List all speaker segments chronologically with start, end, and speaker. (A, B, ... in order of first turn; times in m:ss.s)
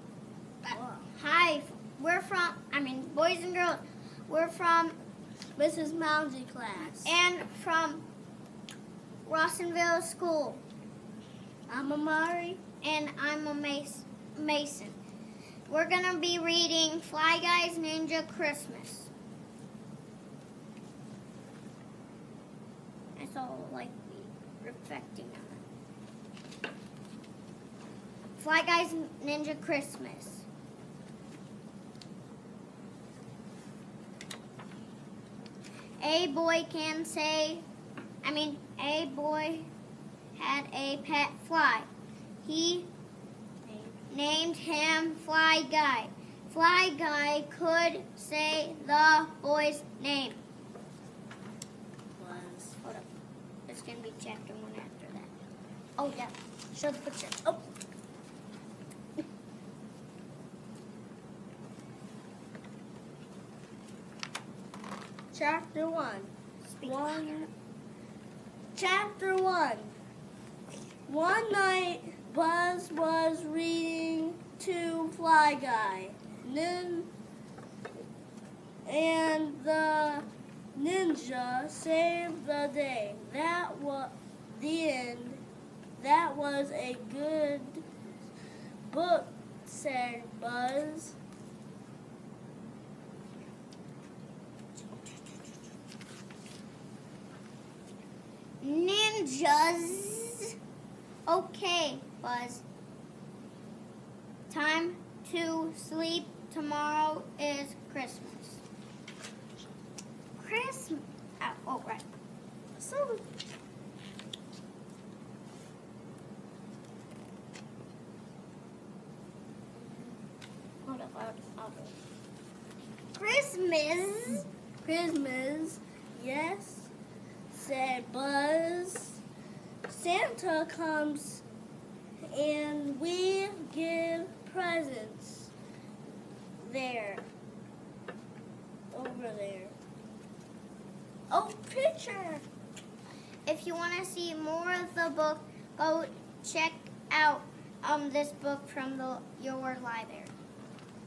0:00.6-0:04.9 A
0:00.7-0:01.0 B
0:05.6-0:07.1 B
0:06.8-0:08.0 A
0:09.2-0:10.6 A
0:11.7-0:12.6 B
0:12.8-0:15.0 A
0:15.7-0:19.1 A
0:23.2-0:25.6 A
0:28.4-0:30.4 A
0:36.0-0:37.6 A
0:38.2-0:39.7 A
0:40.4-0:41.9 A
0:42.4-0:42.9 A
0:43.7-0:43.9 B
0:44.1-0:50.4 A
0:52.2-0:52.8 B
0:52.8-0:53.1 A
0:53.7-0:55.3 A
0:56.0-0:57.5 A
1:05.3-1:07.5 B
1:06.8-1:07.4 A
1:08.7-1:09.9 B
1:11.1-1:17.1 B
1:18.8-1:25.4 B
1:26.0-1:27.9 B
1:28.8-1:31.2 B
1:38.6-1:40.5 A
1:41.3-1:42.6 A
1:44.5-1:48.6 A
1:50.4-1:52.0 A
1:52.8-1:53.2 B
1:59.8-2:00.1 A
2:00.8-2:01.9 A
2:03.1-2:04.4 A
2:04.8-2:06.9 B
2:07.5-2:09.2 B
2:09.8-2:11.4 B
2:12.3-2:15.5 B
2:16.6-2:17.2 B
2:18.9-2:19.8 B
2:21.3-2:22.4 B
2:23.4-2:30.3 A